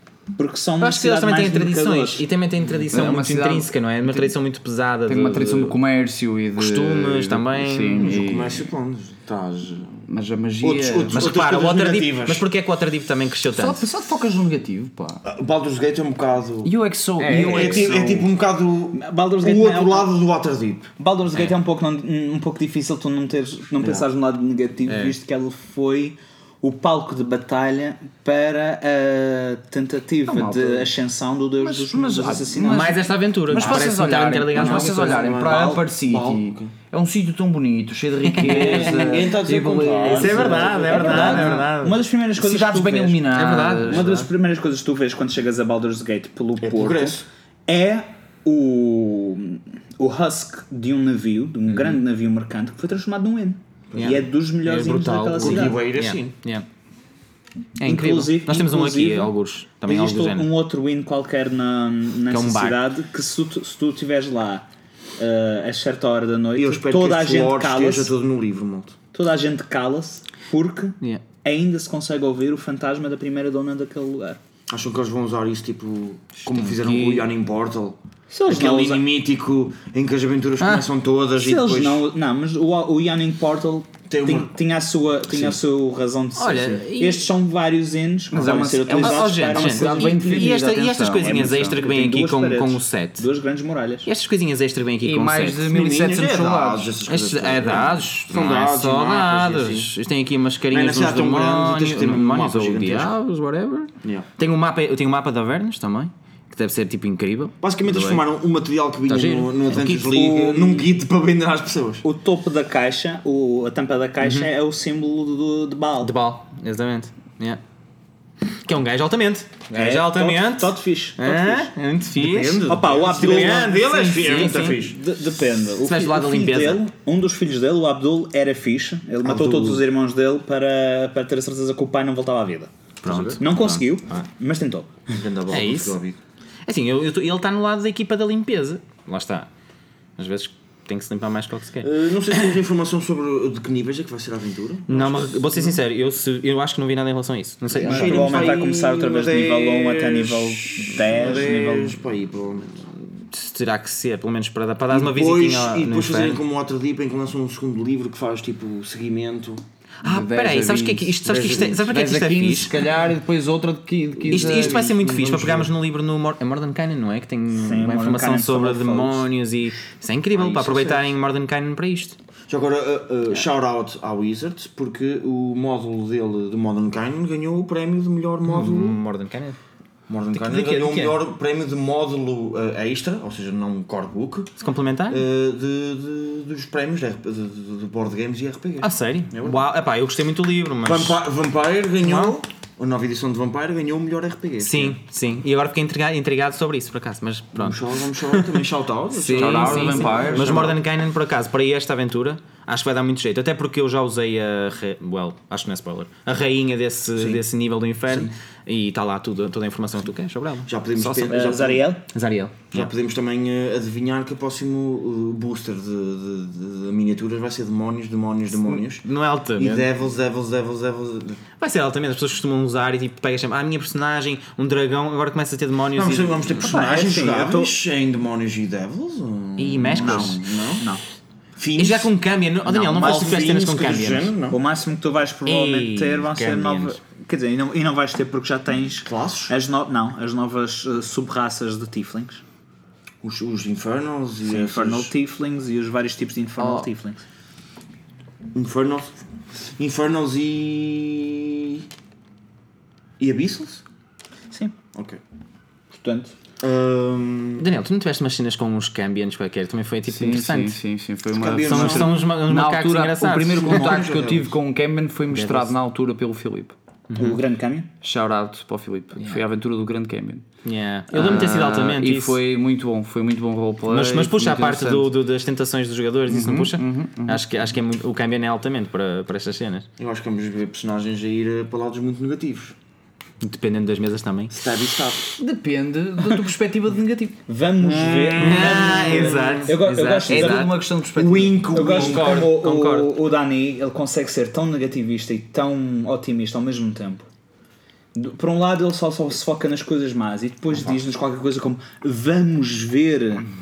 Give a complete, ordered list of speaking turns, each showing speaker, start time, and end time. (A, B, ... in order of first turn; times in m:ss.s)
0:00.4-0:02.2 A
0:00.8-0:05.8 B
0:02.9-0:04.3 C
0:05.0-0:08.7 C
0:06.6-0:08.2 B
0:08.0-0:10.0 D
0:10.1-0:11.2 C
0:10.6-0:12.4 D
0:11.1-0:13.8 B
0:13.5-0:15.2 C
0:15.2-0:16.7 D
0:16.6-0:18.3 C
0:17.2-0:17.9 B
0:17.3-0:20.9 D
0:18.9-0:20.1 A
0:21.0-0:33.1 A
0:24.8-0:25.2 B
0:30.3-0:30.9 C
0:31.6-0:41.7 C
0:32.6-0:35.3 B
0:33.6-0:33.9 D
0:34.5-0:36.7 D
0:38.3-0:39.0 B
0:38.4-0:41.6 D
0:40.0-0:42.0 B
0:40.4-0:43.3 A
0:42.4-0:44.1 C
0:43.3-0:44.3 B
0:43.8-0:55.8 A
0:46.6-0:47.2 D
0:51.7-0:52.0 B
0:53.9-0:54.3 D
0:54.0-0:56.6 B
0:55.3-0:56.3 D
0:57.8-1:00.5 B
0:57.8-0:59.3 A
0:59.8-1:04.6 A
1:02.3-1:02.8 B
1:05.2-1:08.1 A
1:06.6-1:09.0 D
1:09.1-1:14.4 A
1:14.7-1:22.0 D
1:16.4-1:17.3 B
1:18.3-1:19.0 A
1:20.6-1:20.8 B
1:21.4-1:30.5 A
1:24.1-1:24.5 D
1:25.3-1:25.6 D
1:26.3-1:27.3 B
1:28.3-1:31.8 C
1:28.5-1:33.3 B
1:31.2-1:34.1 A
1:34.0-1:35.7 B
1:35.0-1:36.9 C
1:35.6-1:39.9 D
1:37.1-1:48.2 B
1:40.7-1:43.1 D
1:47.6-1:52.0 D
1:49.1-1:50.7 B
1:50.5-1:50.8 A
1:52.0-1:56.1 A
1:54.2-1:54.5 B
1:56.0-1:57.6 B
1:58.4-2:04.8 B
1:59.7-2:01.7 A
2:02.2-2:05.0 D
2:02.4-2:12.7 A
2:05.8-2:06.8 B
2:09.2-2:09.8 D
2:13.0-2:14.2 B
2:13.0-2:13.4 D
2:13.4-2:15.0 A
2:15.1-2:16.2 D
2:15.5-2:16.0 B
2:16.6-2:19.5 B
2:20.2-2:22.6 B
2:21.8-2:25.8 D
2:24.9-2:28.6 B
2:27.7-2:32.9 D
2:27.8-2:32.0 A
2:33.2-2:36.4 B
2:34.9-2:39.6 D
2:40.0-2:42.7 B
2:40.0-2:44.9 C
2:41.2-2:42.0 D
2:44.2-2:45.7 D
2:44.3-2:52.2 B
2:47.5-2:49.3 A
2:50.3-2:51.2 D
2:52.5-2:59.0 D
2:58.4-2:59.6 B
3:00.1-3:04.5 D
3:00.3-3:01.2 B
3:04.6-3:05.2 B
3:05.1-3:09.6 D
3:08.8-3:11.2 B
3:10.8-3:15.0 D
3:12.0-3:12.4 B
3:14.6-3:31.6 B
3:17.5-3:20.8 D
3:19.3-3:20.6 C
3:27.1-3:27.4 D
3:28.1-3:28.3 D
3:30.6-3:31.9 D
3:31.3-3:32.0 A
3:32.1-3:32.9 B
3:32.7-3:41.4 D
3:38.6-3:39.9 B
3:41.6-3:47.0 B
3:45.9-3:50.8 D
3:46.6-3:47.7 A
3:49.6-3:50.4 B
3:50.0-3:51.0 A
3:51.6-3:52.1 D
3:51.8-3:54.3 B
3:52.7-3:53.5 A
3:52.9-3:54.6 D
3:54.5-4:02.4 A
3:55.4-3:57.0 B
3:59.0-3:59.5 D
4:03.2-4:05.1 D
4:04.4-4:07.2 A
4:06.6-4:06.9 B
4:08.5-4:11.8 D
4:13.2-4:13.8 D
4:14.9-4:15.2 D
4:15.9-4:16.3 A
4:16.6-4:17.7 D
4:17.6-4:20.8 B
4:20.1-4:26.7 C
4:21.3-4:22.3 D
4:21.6-4:24.0 B
4:23.4-4:24.5 D
4:25.3-4:25.7 B
4:27.1-4:27.4 B
4:27.2-4:27.9 A
4:28.0-4:30.4 C
4:30.6-4:32.4 B
4:31.1-4:35.1 C
4:33.9-4:39.9 B
4:36.3-4:37.4 C
4:40.0-4:42.8 D
4:43.4-4:44.5 B
4:44.5-4:45.3 D
4:45.4-4:47.4 C
4:47.5-4:50.7 A
4:47.8-4:49.7 D
4:48.4-4:50.7 B
4:50.3-4:51.7 C
4:51.1-4:52.5 D
4:51.7-4:57.3 A
4:51.7-4:53.1 B
4:58.1-5:03.4 A
5:00.7-5:01.0 D